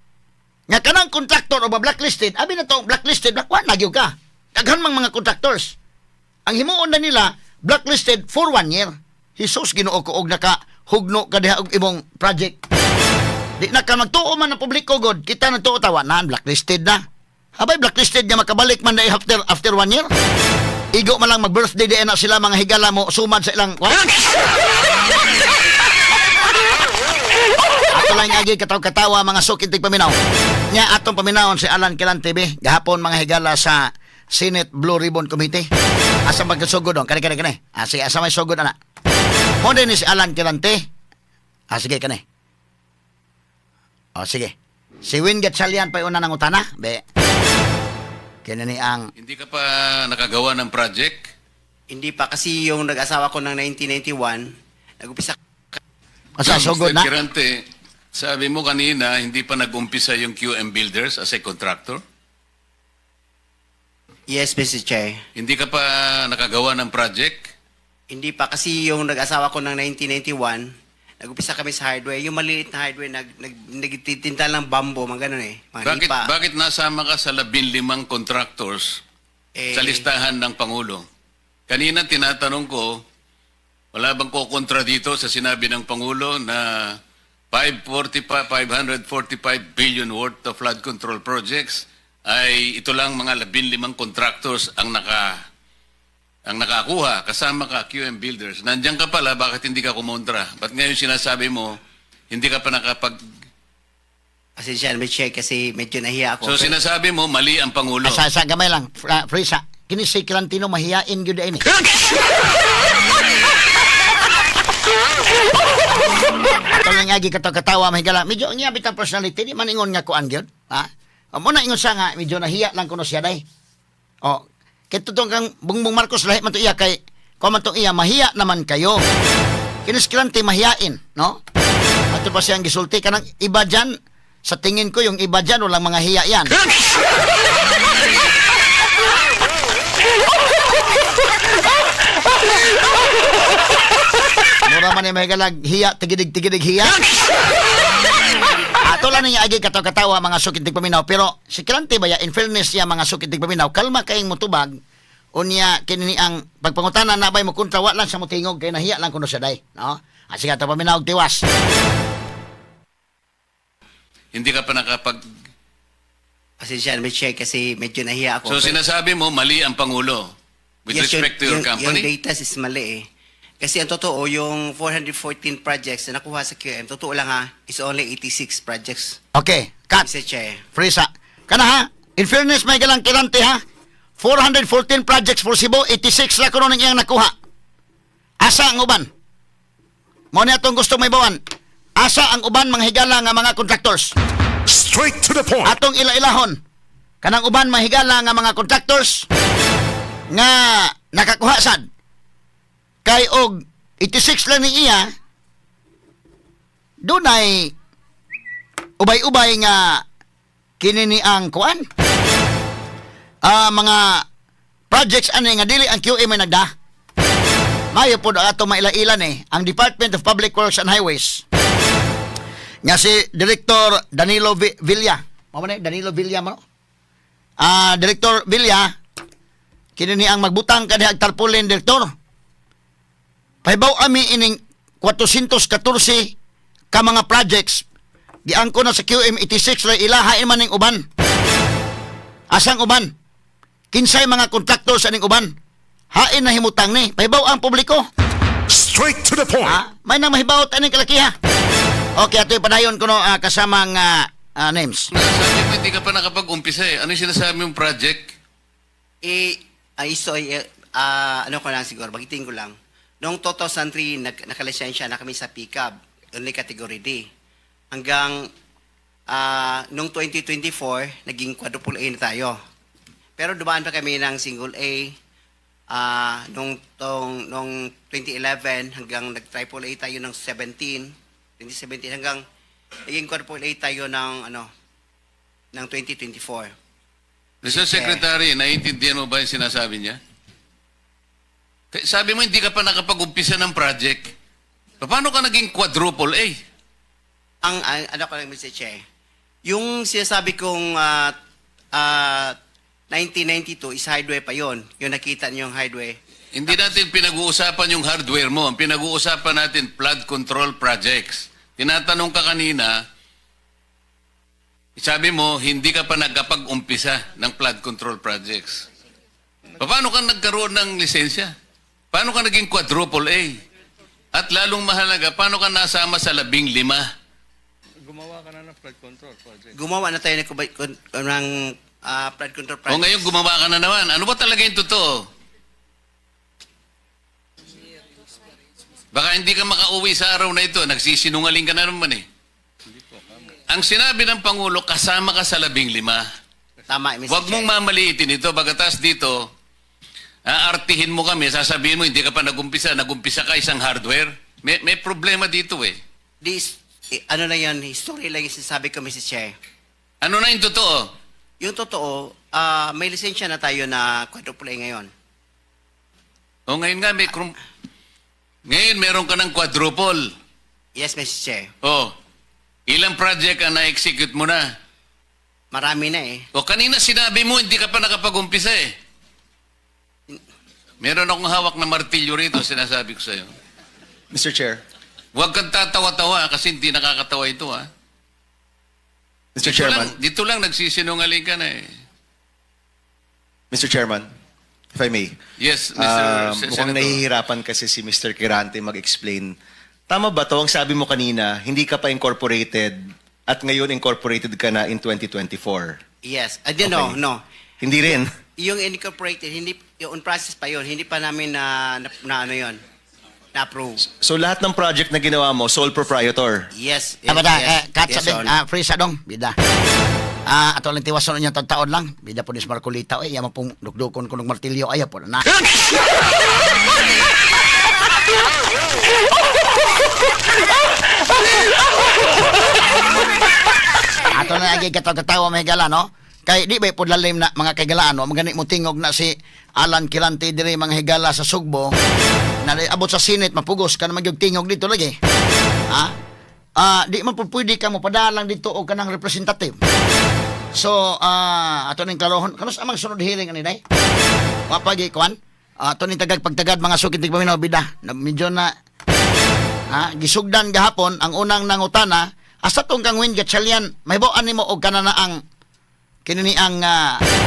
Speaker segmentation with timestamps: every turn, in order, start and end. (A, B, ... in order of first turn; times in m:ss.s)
0:00.7-0:05.8 A
0:06.5-0:12.6 A
0:13.6-0:17.0 A
0:17.6-0:20.1 A
0:20.9-0:24.0 A
0:27.9-0:30.2 A
0:30.7-0:35.7 A
0:36.2-0:38.8 A
0:39.6-0:40.8 A
0:41.7-0:42.2 A
0:44.2-0:47.0 A
0:48.4-0:49.1 A
0:49.2-0:51.3 B
0:51.9-0:55.8 C
0:56.4-0:57.1 A
0:56.4-1:02.0 B
1:04.3-1:05.2 C
1:05.4-1:07.5 B
1:08.1-1:16.3 C
1:15.8-1:19.0 B
1:19.6-1:20.1 C
1:19.7-1:21.0 B
1:21.7-1:23.0 B
1:23.9-1:27.0 B
1:27.5-1:35.4 B
1:36.5-1:41.8 B
1:42.3-1:43.2 B
1:44.6-1:46.8 C
1:46.4-1:48.2 B
1:48.0-1:51.6 A
1:56.7-2:03.4 A
2:04.2-2:09.0 A
2:09.9-2:11.4 A
2:12.1-2:13.9 A
2:14.5-2:16.5 A
2:24.6-2:27.0 A
2:28.8-2:34.7 A
2:35.4-2:41.4 A
2:44.3-2:45.2 B
2:46.6-2:48.8 C
2:48.5-2:50.3 B
2:50.9-2:52.1 B
2:50.9-2:53.1 C
2:53.6-2:59.2 C
2:59.3-3:00.1 A
3:00.0-3:00.6 C
3:00.7-3:03.6 A
3:04.2-3:07.3 A
3:08.4-3:09.1 A
3:10.3-3:11.4 A
3:12.0-3:14.1 A
3:14.7-3:15.8 D
3:15.6-3:16.6 A
3:17.2-3:19.3 A
3:20.3-3:21.9 A
3:23.0-3:25.1 A
3:27.0-3:27.7 A
3:29.0-3:30.0 A
3:30.8-3:31.9 A
3:33.4-3:34.2 A
3:34.9-3:36.7 A
3:37.9-3:41.4 A
3:42.8-3:46.6 A
3:47.6-3:48.9 A
3:50.0-3:52.1 A
3:53.6-3:56.4 A
3:56.9-3:57.8 A
3:58.5-4:01.1 A
4:02.5-4:03.1 A
4:03.9-4:05.5 A
4:06.1-4:08.0 A
4:08.7-4:09.8 D
4:09.6-4:11.3 A
4:12.2-4:15.1 A
4:15.1-4:18.3 B
4:19.2-4:27.3 C
4:27.9-4:28.5 C
4:29.3-4:32.6 C
4:33.4-4:35.2 C
4:35.9-4:42.4 C
4:43.0-4:44.7 C
4:45.7-4:46.7 C
4:47.6-4:48.2 C
4:47.6-4:50.2 B
4:51.9-4:54.3 B
4:55.0-4:56.6 B
4:57.6-4:59.0 C
4:59.7-5:01.3 C
5:01.9-5:02.6 C
5:03.1-5:06.2 C
5:06.5-5:13.0 B
5:15.0-5:18.8 B
5:19.8-5:21.5 B
5:22.1-5:23.6 B
5:24.3-5:27.0 B
5:29.7-5:33.3 C
5:32.9-5:35.3 B
5:39.1-5:42.2 B
5:43.7-5:46.2 B
5:46.9-5:47.7 C
5:47.3-5:49.5 B
5:50.5-5:56.0 B
5:56.4-5:59.6 C
6:00.2-6:01.1 B
6:01.6-6:05.1 C
6:06.7-6:07.6 B
6:08.7-6:10.3 B
6:11.0-6:11.7 C
6:11.8-6:12.2 B
6:12.9-6:14.7 B
6:15.7-6:16.4 C
6:16.5-6:18.9 B
6:21.0-6:23.5 B
6:24.3-6:24.8 E
6:25.3-6:27.9 B
6:29.6-6:30.1 E
6:29.6-6:31.9 B
6:33.7-6:34.3 E
6:34.9-6:35.4 E
6:35.6-6:37.2 B
6:36.0-6:39.6 E
6:40.1-6:46.0 E
6:46.2-6:47.4 C
6:46.8-6:47.2 E
6:47.8-6:48.4 E
6:48.6-6:52.8 C
6:53.5-6:54.0 C
6:54.0-6:56.7 E
6:56.8-6:58.5 C
6:57.2-6:59.6 A
7:00.5-7:05.4 A
7:14.3-7:21.9 A
7:22.6-7:25.2 A
7:26.8-7:29.8 A
7:30.7-7:33.8 A
7:34.7-7:38.7 A
7:39.9-7:45.4 A
7:46.2-7:47.2 A